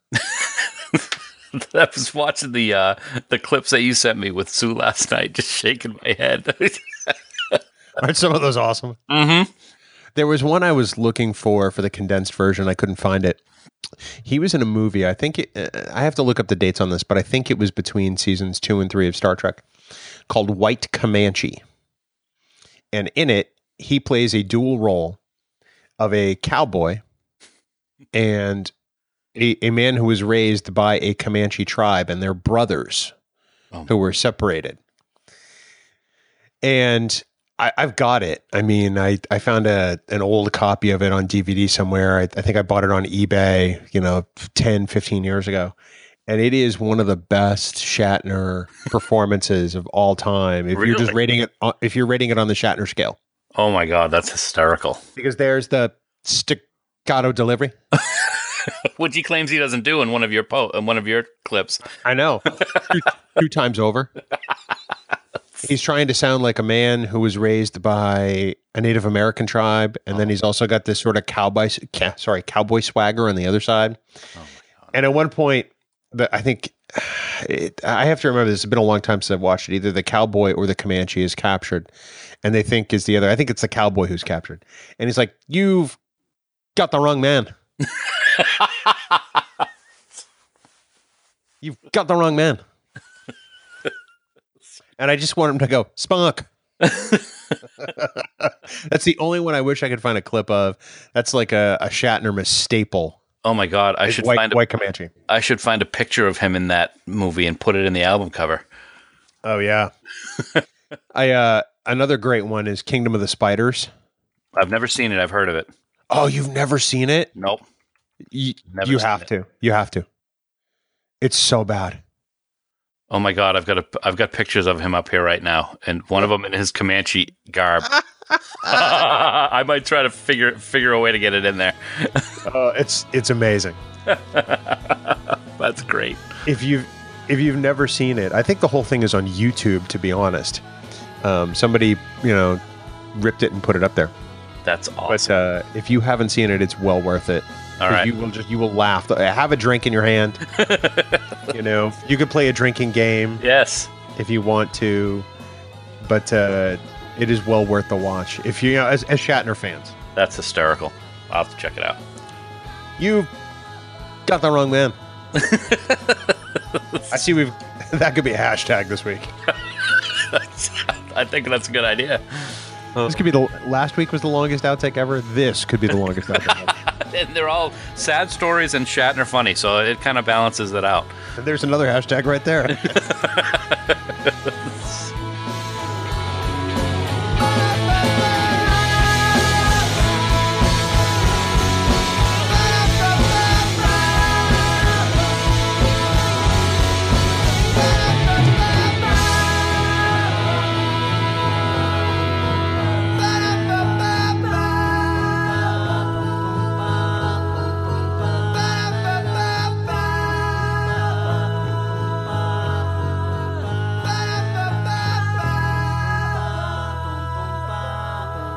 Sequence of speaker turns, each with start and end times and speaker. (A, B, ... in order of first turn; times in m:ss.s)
0:00.1-0:07.6 A
0:08.0-0:09.0 B
0:09.1-0:09.5 A
0:10.1-0:13.4 B
0:14.2-0:19.6 B
0:20.3-0:21.6 B
0:22.9-0:25.2 B
0:26.0-0:27.0 B
0:28.1-0:28.7 B
0:29.4-0:33.1 B
0:33.9-0:34.8 B
0:36.6-0:45.7 B
0:46.3-0:53.2 B
0:50.7-0:51.2 A
0:53.5-0:55.0 A
0:55.2-0:57.7 B
0:57.9-1:01.8 A
1:02.0-1:04.1 B
1:02.6-1:03.0 A
1:05.6-1:14.0 B
1:14.4-1:14.9 A
1:14.9-1:21.9 B
1:22.4-1:26.0 B
1:26.8-1:27.5 B
1:28.0-1:29.2 A
1:31.6-1:32.6 B
1:35.0-1:36.5 B
1:36.8-1:37.4 A
1:37.8-1:43.2 B
1:43.4-1:44.6 A
1:44.0-1:45.1 B
1:45.3-1:48.6 A
1:49.4-1:49.9 B
1:50.4-1:50.6 A
1:51.1-1:53.9 B
1:54.6-1:55.7 A
1:56.1-1:57.3 B
1:57.3-1:57.6 A
1:58.3-2:00.0 B
1:58.7-1:59.2 A
2:01.2-2:02.0 B
2:03.1-2:08.0 A
2:08.6-2:12.4 A
2:08.6-2:09.0 B
2:12.4-2:13.8 B
2:14.1-2:16.2 A
2:16.4-2:20.6 B
2:21.2-2:22.6 B
2:23.1-2:24.1 B
2:24.6-2:25.2 A
2:25.1-2:30.4 B
2:27.8-2:28.1 A
2:30.5-2:31.5 A
2:31.5-2:33.4 B
2:33.4-2:33.9 A
2:34.1-2:35.3 B
2:36.0-2:39.9 B
2:40.1-2:42.0 A
2:43.0-2:43.3 B
2:44.2-2:45.0 B
2:45.3-2:47.2 A
2:47.1-2:49.3 B
2:49.5-2:53.1 A
2:53.0-2:56.7 B
2:56.3-3:01.1 A
3:01.4-3:03.0 B
3:02.7-3:05.1 A